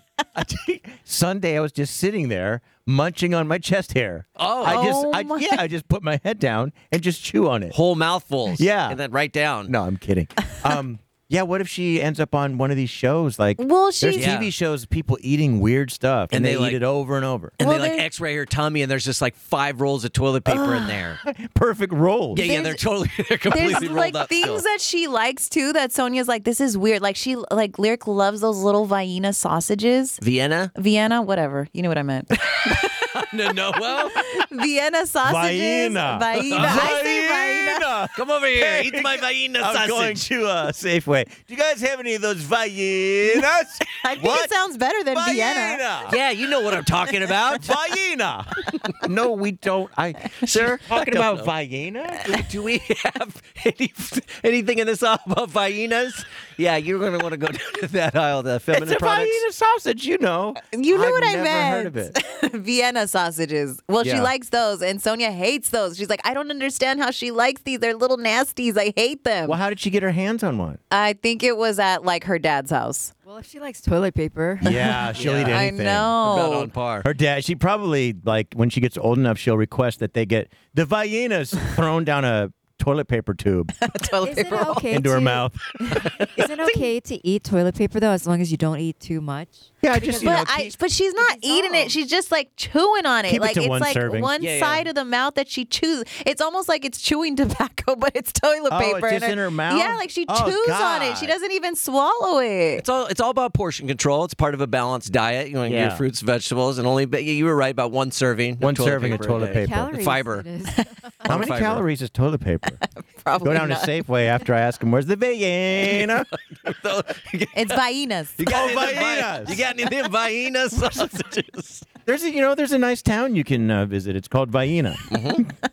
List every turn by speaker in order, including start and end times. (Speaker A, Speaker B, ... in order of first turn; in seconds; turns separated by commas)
Speaker A: 0.3-7.7, Speaker B: 4.4-4.9, Speaker C: 4.6-5.6, Speaker B: 7.7-9.7, Speaker A: 8.5-9.0, Speaker A: 9.7-17.6, Speaker C: 13.6-14.3, Speaker B: 14.1-14.5, Speaker B: 16.3-16.8, Speaker B: 17.6-21.2, Speaker C: 17.6-18.1, Speaker C: 20.5-20.9, Speaker A: 21.2-22.4, Speaker B: 22.3-24.6, Speaker C: 22.4-22.8, Speaker C: 23.5-30.2, Speaker B: 30.2-30.7, Speaker C: 30.7-33.0, Speaker B: 32.6-34.4, Speaker C: 33.9-37.9, Speaker A: 35.2-44.5, Speaker B: 36.5-37.0, Speaker B: 38.1-40.2, Speaker C: 44.0-45.8, Speaker A: 45.1-46.2, Speaker B: 46.1-47.8, Speaker A: 47.5-52.4, Speaker B: 50.4-51.5, Speaker B: 52.3-59.4, Speaker A: 58.7-62.1, Speaker C: 60.7-69.6, Speaker A: 64.0-64.3, Speaker A: 69.5-70.8, Speaker C: 70.9-73.1, Speaker D: 73.2-74.7, Speaker A: 74.6-76.1, Speaker C: 74.6-76.7, Speaker B: 75.1-77.1, Speaker A: 77.0-83.7, Speaker C: 83.8-84.9, Speaker D: 84.2-90.5, Speaker A: 84.9-86.0, Speaker A: 89.8-90.8, Speaker C: 90.2-102.8, Speaker D: 91.2-91.9, Speaker A: 93.2-94.3, Speaker B: 94.4-94.9, Speaker A: 98.7-101.3, Speaker B: 102.8-110.5, Speaker A: 105.6-106.0, Speaker A: 108.6-109.9, Speaker D: 109.4-110.9, Speaker B: 111.2-111.8, Speaker A: 111.2-112.8, Speaker C: 113.0-114.0, Speaker A: 113.4-116.3, Speaker B: 115.8-117.8, Speaker C: 117.5-118.5, Speaker B: 118.4-121.8, Speaker A: 118.5-119.6, Speaker A: 122.0-125.0, Speaker B: 125.1-125.4